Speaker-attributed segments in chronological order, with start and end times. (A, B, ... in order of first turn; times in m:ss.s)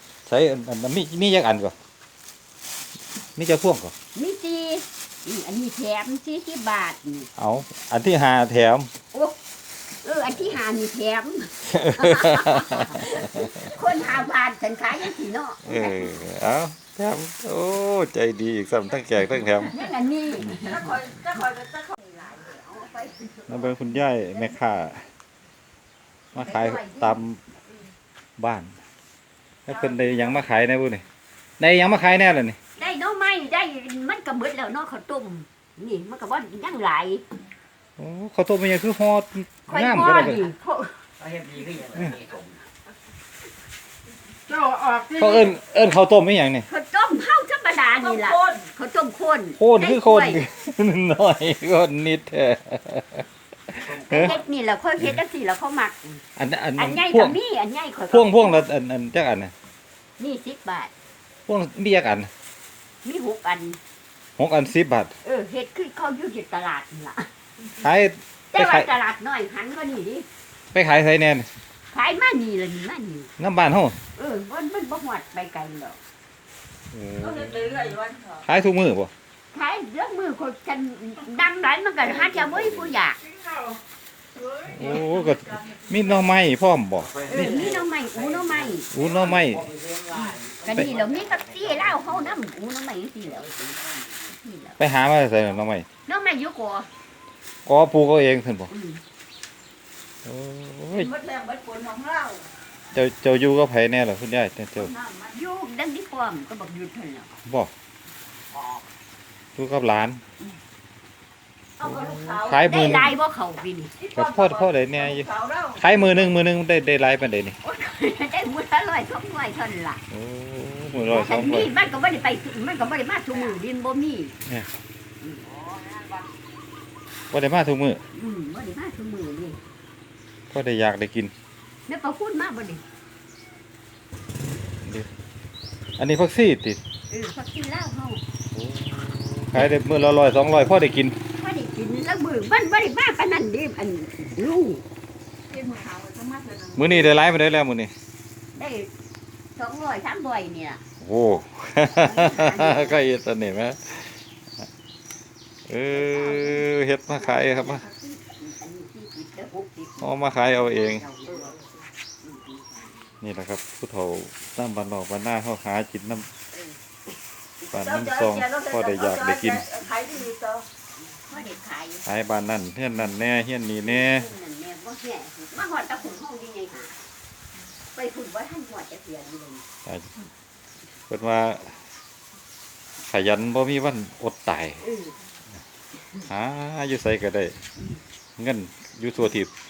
0:00.2-0:01.7 A
0:03.4-0:03.9 A
0:04.1-0:07.3 B
0:07.4-0:08.9 A
0:10.0-0:16.1 B
0:11.6-0:13.7 A
0:15.6-0:19.8 A
0:19.7-0:21.1 B
0:20.4-0:20.7 A
0:20.6-0:21.9 C
0:22.0-0:23.7 B
0:23.5-0:25.0 A
0:26.3-0:27.4 A
0:26.3-0:27.2 B
0:28.4-0:28.8 A
0:29.7-0:31.0 A
0:31.6-0:32.6 A
0:32.8-0:37.2 B
0:38.0-0:40.4 A
0:39.7-0:41.0 B
0:41.2-0:42.5 D
0:44.5-0:45.1 C
0:45.1-0:46.7 A
0:46.7-0:50.4 B
0:48.0-0:48.6 C
0:49.6-0:54.3 A
0:54.1-0:56.2 B
0:56.4-0:57.4 A
0:56.8-0:58.7 B
0:58.1-0:59.5 A
1:00.2-1:00.9 B
1:01.5-1:02.3 A
1:03.0-1:03.8 B
1:04.4-1:05.2 A
1:05.2-1:07.3 B
1:07.8-1:08.9 A
1:08.5-1:10.2 B
1:10.7-1:11.5 A
1:11.9-1:13.3 B
1:13.4-1:14.0 A
1:14.2-1:16.0 B
1:16.9-1:19.1 A
1:17.2-1:18.4 C
1:19.5-1:23.2 B
1:24.7-1:27.7 A
1:27.1-1:27.7 D
1:27.3-1:28.9 B
1:28.4-1:32.1 D
1:28.9-1:29.7 A
1:30.6-1:33.7 B
1:34.3-1:34.8 B
1:34.8-1:35.8 A
1:36.1-1:36.9 B
1:37.7-1:38.7 A
1:38.7-1:39.0 B
1:40.2-1:41.1 A
1:41.0-1:42.4 C
1:42.9-1:44.9 A
1:45.0-1:45.2 C
1:45.3-1:47.3 B
1:47.4-1:47.7 A
1:49.6-1:50.2 A
1:51.8-1:52.5 C
1:51.8-1:53.2 A
1:52.5-1:54.0 B
1:54.0-1:55.8 C
1:54.1-1:57.6 A
1:57.6-2:00.0 B
2:00.1-2:01.7 A
2:01.1-2:04.3 B
2:07.3-2:08.0 A
2:08.1-2:09.6 B
2:10.5-2:11.3 A
2:11.9-2:12.8 B
2:14.8-2:15.1 A
2:16.0-2:16.8 A
2:17.1-2:18.2 B
2:18.5-2:21.2 A
2:21.4-2:24.8 B
2:25.5-2:26.8 C
2:26.7-2:27.9 A
2:28.6-2:28.9 B
2:29.6-2:30.8 B
2:31.0-2:34.7 A
2:32.0-2:33.0 B
2:35.7-2:37.8 A
2:35.9-2:41.6 B
2:40.0-2:41.0 A
2:42.2-2:43.0 B
2:43.2-2:46.3 A
2:46.5-2:46.8 B
2:47.7-2:49.7 A
2:47.7-2:50.6 C
2:51.2-2:52.1 B
2:52.1-2:54.3 A
2:53.8-2:57.0 B
2:57.9-2:59.6 B
2:59.9-3:00.1 A
3:01.1-3:01.8 A
3:03.1-3:04.8 A
3:04.8-3:05.2 B
3:06.3-3:07.6 A
3:08.4-3:09.5 A